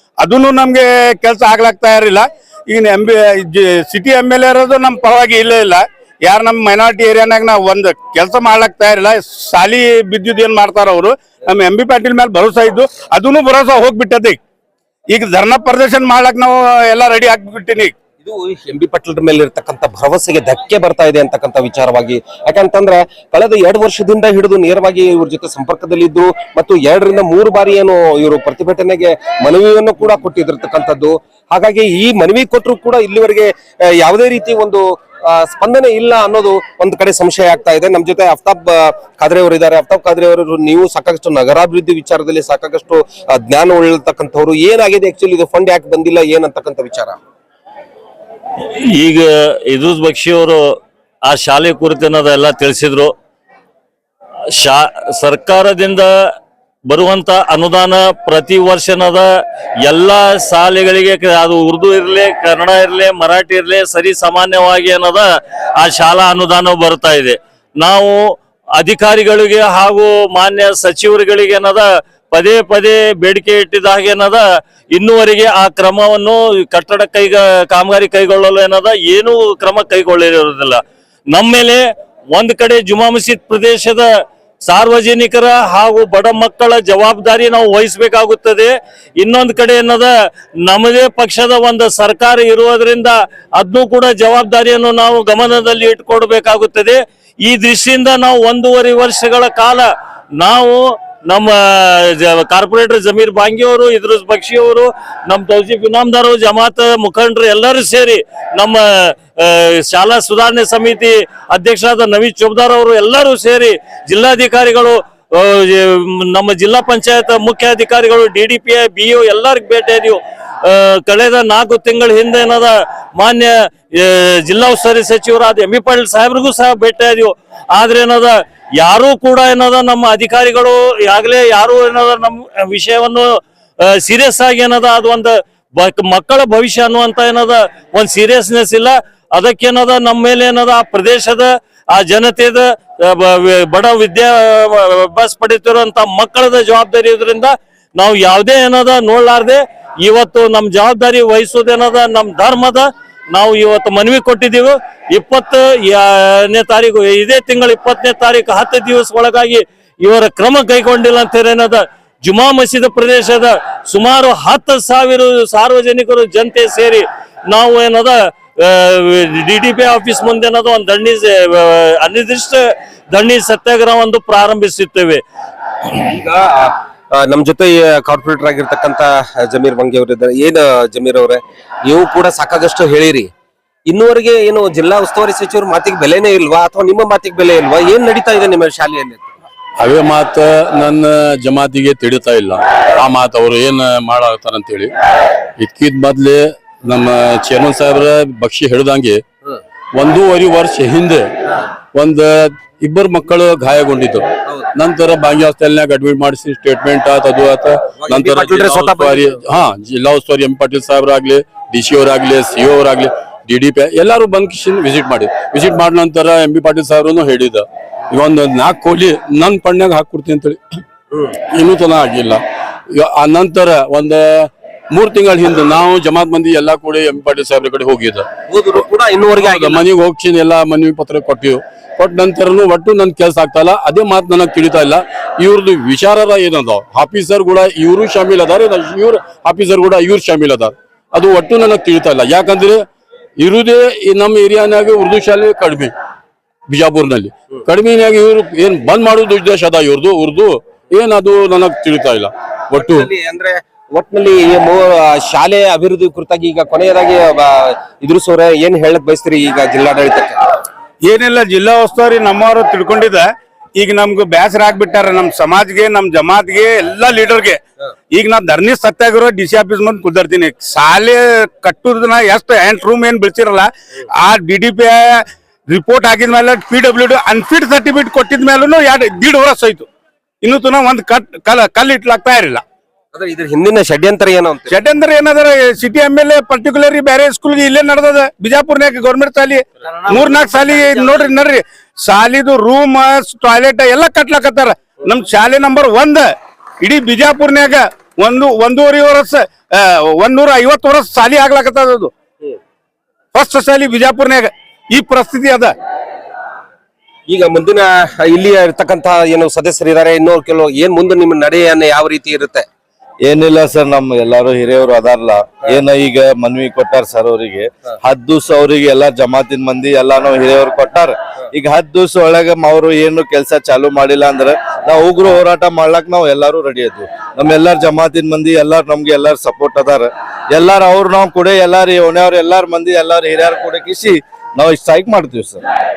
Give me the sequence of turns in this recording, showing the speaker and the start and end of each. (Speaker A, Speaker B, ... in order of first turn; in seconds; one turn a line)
Speaker A: 0.2-14.4
Speaker A: 15.1-17.9
Speaker B: 18.2-47.2
Speaker C: 48.8-50.6
Speaker C: 51.2-53.1
Speaker C: 54.6-56.1
Speaker C: 56.9-59.3
Speaker C: 59.9-84.1
Speaker C: 84.6-90.1
Speaker C: 90.7-175.2
Speaker B: 176.0-183.3
Speaker B: 183.9-189.3
Speaker D: 189.8-194.9
Speaker D: 195.6-199.2
Speaker D: 199.9-201.3
Speaker D: 201.9-220.6
Speaker B: 208.0-209.4
Speaker D: 221.5-222.4
Speaker D: 222.9-228.3
Speaker B: 228.5-229.9
Speaker D: 229.4-242.8
Speaker D: 243.4-245.9
Speaker D: 246.7-253.1
Speaker B: 252.7-260.4
Speaker A: 261.0-267.6
Speaker A: 268.1-279.9
Speaker A: 280.4-282.6
Speaker B: 283.1-284.7
Speaker A: 284.7-296.3
Speaker B: 289.9-291.2
Speaker A: 296.8-302.1
Speaker A: 303.3-305.7
Speaker B: 307.3-312.7
Speaker E: 313.2-335.6